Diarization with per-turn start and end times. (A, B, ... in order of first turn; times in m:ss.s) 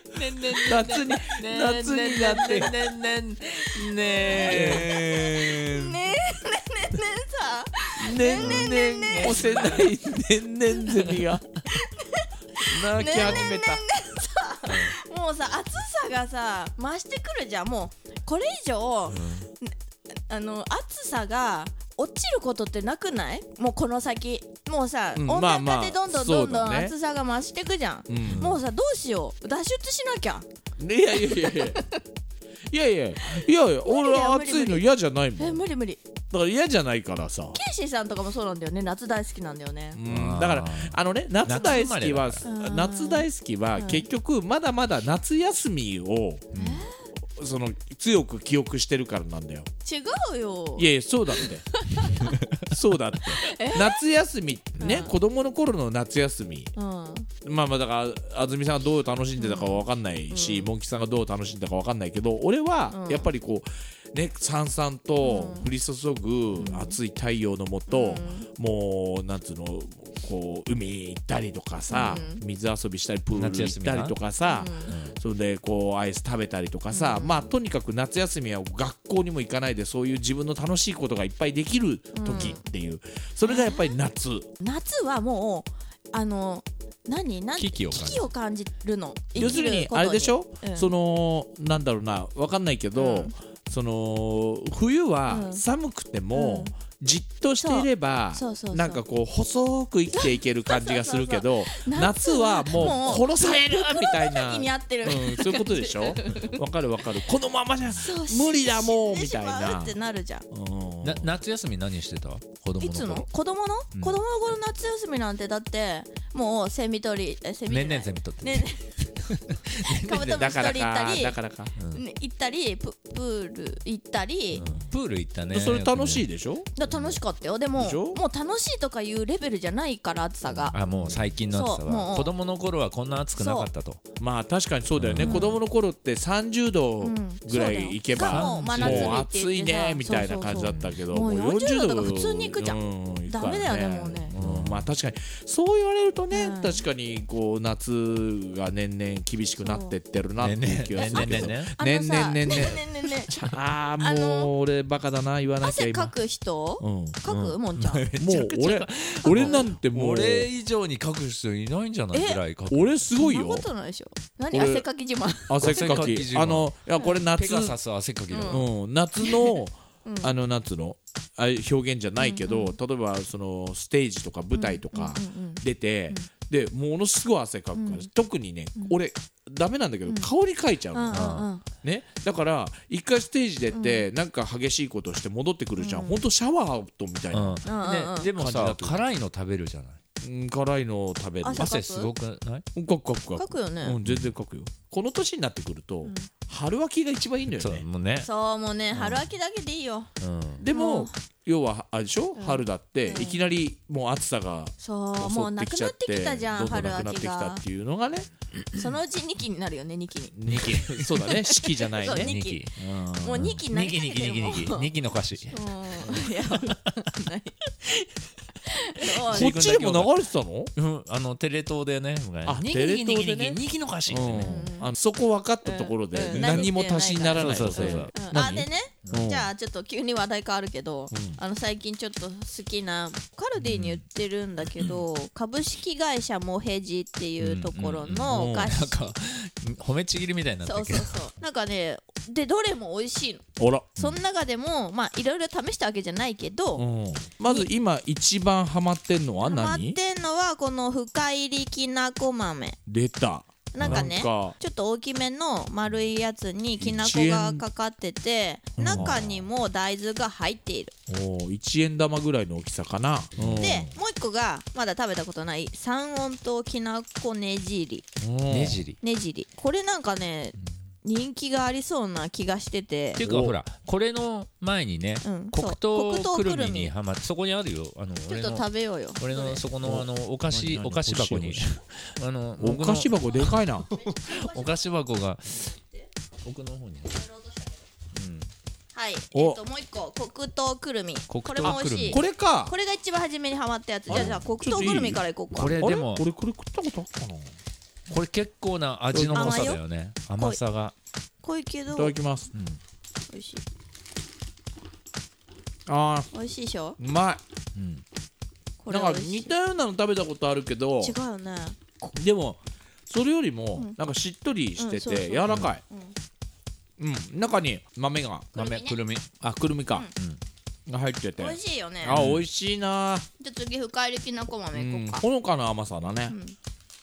0:00.1-0:06.1 A
0:00.6-0:02.7 B
0:03.6-0:09.7 C
0:04.4-0:05.3 B
0:08.0-0:11.6 B
0:08.4-0:10.0 A
0:10.9-0:11.4 A
0:11.6-0:19.8 C
0:12.6-0:13.8 B
0:13.2-0:13.5 A
0:14.7-0:14.9 A
0:19.1-0:19.5 A
0:20.3-0:30.4 C
0:25.1-0:26.9 B
0:28.1-0:28.5 B
0:28.3-0:28.6 A
0:30.8-0:31.8 B
0:31.1-0:32.0 C
0:32.7-0:35.6 B
0:33.2-0:34.8 C
0:35.4-0:36.0 C
0:36.3-0:37.6 B
0:37.5-0:40.0 C
0:39.9-0:46.5 B
0:40.0-0:42.4 A
0:42.4-0:44.0 C
0:46.5-0:46.9 A
0:46.5-0:47.0 C
0:47.3-0:49.7 B
0:49.8-0:52.4 C
0:50.8-0:51.7 B
0:52.3-0:52.6 A
0:52.6-0:56.7 B
0:53.4-0:54.0 C
0:54.8-0:55.2 C
0:56.8-0:57.3 C
0:57.4-1:24.5 B
0:59.4-1:00.7 C
1:02.9-1:03.3 C
1:05.2-1:05.7 C
1:06.6-1:07.0 C
1:07.9-1:08.5 C
1:11.9-1:12.4 C
1:13.3-1:14.2 A
1:14.4-1:14.9 C
1:14.9-1:15.2 A
1:16.9-1:17.5 C
1:22.1-1:22.6 C
1:23.4-1:23.9 C
1:24.6-1:30.9 C
1:27.6-1:28.3 A
1:29.3-1:29.6 A
1:29.4-1:50.0 B
1:32.9-1:33.3 C
1:35.3-1:35.6 C
1:36.3-1:36.7 C
1:37.6-1:39.0 C
1:40.1-1:46.6 C
1:42.7-1:43.1 A
1:47.9-1:50.4 C
1:50.5-1:51.3 B
1:51.0-1:53.3 A
1:52.8-2:01.4 C
1:53.9-1:54.2 A
1:57.7-1:58.7 A
1:59.3-2:00.5 A
2:00.3-2:01.7 B
2:01.8-2:02.0 A
2:01.9-2:04.6 C
2:04.6-2:06.2 A
2:05.5-2:06.7 B
2:06.8-2:10.8 C
2:06.9-2:07.2 A
2:07.8-2:08.2 B
2:10.7-2:14.0 A
2:11.5-2:12.3 C
2:13.3-2:13.7 C
2:14.2-2:36.1 B
2:15.0-2:15.5 A
2:15.2-2:15.6 C
2:17.0-2:24.3 C
2:18.2-2:19.2 A
2:20.5-2:21.0 A
2:24.3-2:24.9 A
2:26.3-2:26.8 C
2:29.6-2:29.9 C
2:30.4-2:31.7 A
2:31.0-2:33.3 C
2:34.0-2:34.5 C
2:35.6-2:38.1 C
2:36.8-2:37.2 B
2:37.3-2:43.0 A
2:38.2-2:40.5 B
2:39.2-2:39.6 C
2:42.1-2:42.4 C
2:42.7-2:43.7 B
2:43.1-2:45.8 C
2:44.5-2:44.9 B
2:45.4-2:47.8 B
2:45.6-2:46.7 A
2:47.0-2:47.2 C
2:47.3-2:48.6 A
2:48.3-2:48.6 C
2:48.5-3:07.6 B
2:49.2-2:50.3 C
2:52.2-2:52.8 C
2:54.5-2:56.3 C
2:57.7-2:58.1 C
3:00.9-3:01.6 C
3:01.1-3:01.5 A
3:03.7-3:04.1 C
3:05.8-3:06.2 C
3:07.3-3:10.0 A
3:07.6-3:08.3 C
3:08.3-3:09.0 B
3:10.2-3:11.7 B
3:11.4-3:12.1 C
3:11.6-3:12.6 A
3:12.7-3:17.8 B
3:13.4-3:14.0 C
3:14.0-3:14.3 A
3:16.0-3:16.3 C
3:17.6-3:18.3 A
3:18.2-3:20.1 C
3:18.9-3:19.2 A
3:20.2-3:20.7 A
3:20.6-3:28.3 B
3:20.7-3:21.1 C
3:22.4-3:23.4 C
3:24.8-3:27.6 C
3:28.7-3:30.4 C
3:30.3-3:32.3 B
3:30.5-3:31.1 A
3:31.0-3:34.9 C
3:32.1-3:36.8 A
3:35.5-3:37.6 C
3:38.6-3:39.8 C
3:39.1-3:40.2 A
3:39.3-3:40.7 B
3:40.8-3:44.6 A
3:42.4-3:49.5 B
3:44.4-3:44.9 C
3:45.6-3:59.1 C
3:46.2-3:46.7 A
3:47.4-3:49.3 A
3:51.1-3:51.4 B
3:53.6-3:54.0 A
3:57.4-4:01.2 A
3:58.3-3:58.8 B
4:00.6-4:03.4 C
4:03.6-4:04.0 B
4:04.0-4:06.8 C
4:06.8-4:10.0 B
4:09.4-4:12.8 C
4:12.9-4:14.5 B
4:13.7-4:20.9 C
4:13.8-4:14.1 A
4:16.8-4:17.6 B
4:18.8-4:19.4 A
4:18.9-4:19.3 B
4:21.1-4:23.9 B
4:23.4-4:23.8 A
4:23.6-4:28.0 C
4:28.2-4:28.8 B
4:28.5-4:29.0 A
4:29.0-4:33.2 C
4:33.2-4:45.6 A
4:33.2-4:33.6 B
4:35.2-4:36.9 C
4:38.3-4:39.6 C
4:39.8-4:41.8 B
4:42.6-4:43.9 B
4:43.9-4:44.9 C
4:45.5-4:46.1 C
4:46.4-4:47.2 A
4:47.1-4:47.8 C
4:48.1-4:48.5 A
4:48.9-4:55.8 C
4:49.3-4:49.6 B
4:51.3-4:52.2 A
4:51.3-4:52.7 B
4:54.1-4:54.4 A
4:54.1-4:55.2 B
4:55.5-4:56.2 A
4:55.8-4:57.5 B
4:58.1-5:00.9 A
4:59.1-4:59.7 B
4:59.3-4:59.8 C
5:01.4-5:02.1 C
5:01.9-5:02.5 B
5:02.5-5:02.8 A
5:03.3-5:03.6 C
5:05.9-5:06.3 B
5:06.3-5:07.0 C
5:07.0-5:07.4 B
5:07.7-5:08.0 A
5:08.8-5:09.5 C
5:08.9-5:11.2 B
5:11.0-5:12.1 C
5:12.1-5:15.8 B
5:14.8-5:16.1 C
5:15.5-5:15.7 A
5:17.0-5:18.5 B
5:18.5-5:19.0 C
5:18.6-5:19.3 A
5:19.4-5:20.1 B
5:20.2-5:20.4 A
5:20.9-5:23.3 B
5:21.4-5:22.2 C
5:22.1-5:22.4 A
5:23.4-5:25.2 C
5:24.7-5:26.4 B
5:26.3-5:26.6 C